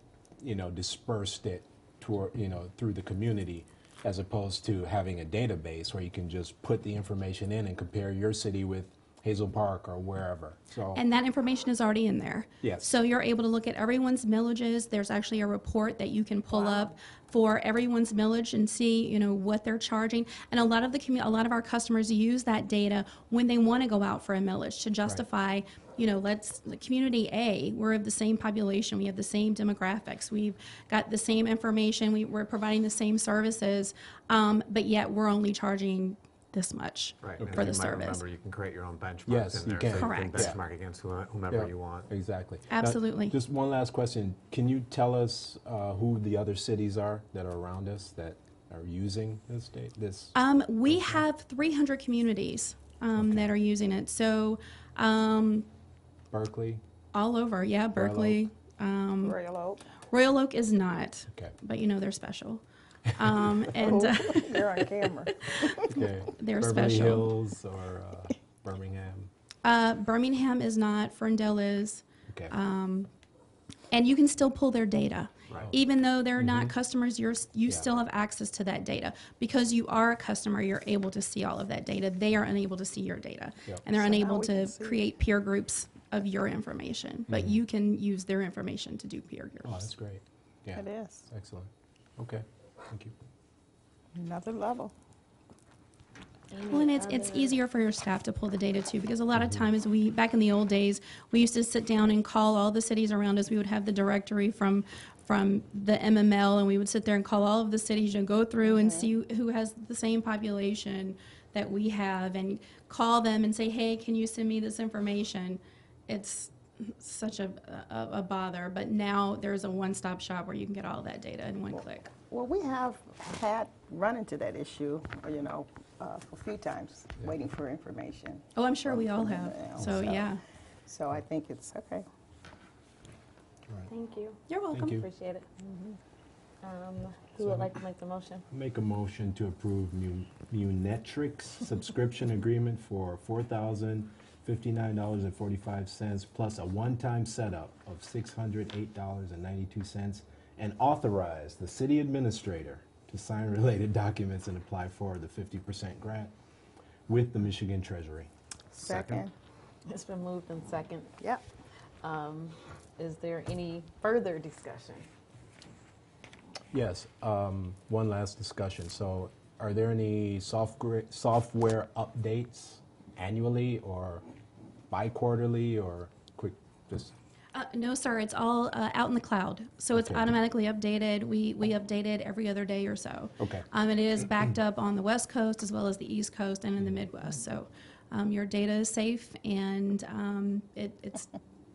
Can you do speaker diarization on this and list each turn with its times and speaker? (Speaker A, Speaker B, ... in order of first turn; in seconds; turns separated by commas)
Speaker A: 0.4-11.0, Speaker B: 10.9-38.2, Speaker A: 12.6-12.9, Speaker C: 16.6-16.9, Speaker D: 37.2-42.1, Speaker A: 37.4-37.6, Speaker A: 39.3-40.6, Speaker B: 39.9-40.5, Speaker A: 41.5-50.4, Speaker B: 42.7-43.4, Speaker B: 50.4-55.7, Speaker A: 50.9-51.3, Speaker A: 53.2-53.5, Speaker A: 56.3-56.8, Speaker B: 57.1-59.4, Speaker A: 57.9-58.5, Speaker E: 59.2-59.9, Speaker B: 60.1-62.6, Speaker B: 63.1-64.8, Speaker E: 63.8-66.0, Speaker B: 65.5-67.3, Speaker A: 65.9-69.3, Speaker B: 69.6-73.1, Speaker A: 72.3-72.5, Speaker B: 73.9-89.9, Speaker A: 76.4-76.7, Speaker E: 84.0-85.0, Speaker A: 87.3-87.6, Speaker A: 89.6-93.1, Speaker E: 90.8-91.3, Speaker E: 94.2-94.9, Speaker C: 96.5-97.5, Speaker B: 96.7-122.1, Speaker A: 99.4-99.7, Speaker E: 108.6-109.1, Speaker E: 122.3-130.3, Speaker B: 128.6-130.4, Speaker E: 130.9-132.1, Speaker C: 133.9-134.4, Speaker B: 134.5-135.0, Speaker A: 134.7-135.1, Speaker C: 135.0-136.0, Speaker C: 136.6-138.4, Speaker A: 137.4-137.7, Speaker A: 138.5-156.3, Speaker A: 157.1-158.3, Speaker E: 158.7-159.3, Speaker D: 158.8-159.2, Speaker C: 159.9-161.1, Speaker C: 162.0-165.1, Speaker A: 166.7-174.2, Speaker A: 174.9-177.1, Speaker B: 177.5-191.3, Speaker A: 179.9-180.4, Speaker A: 183.4-183.7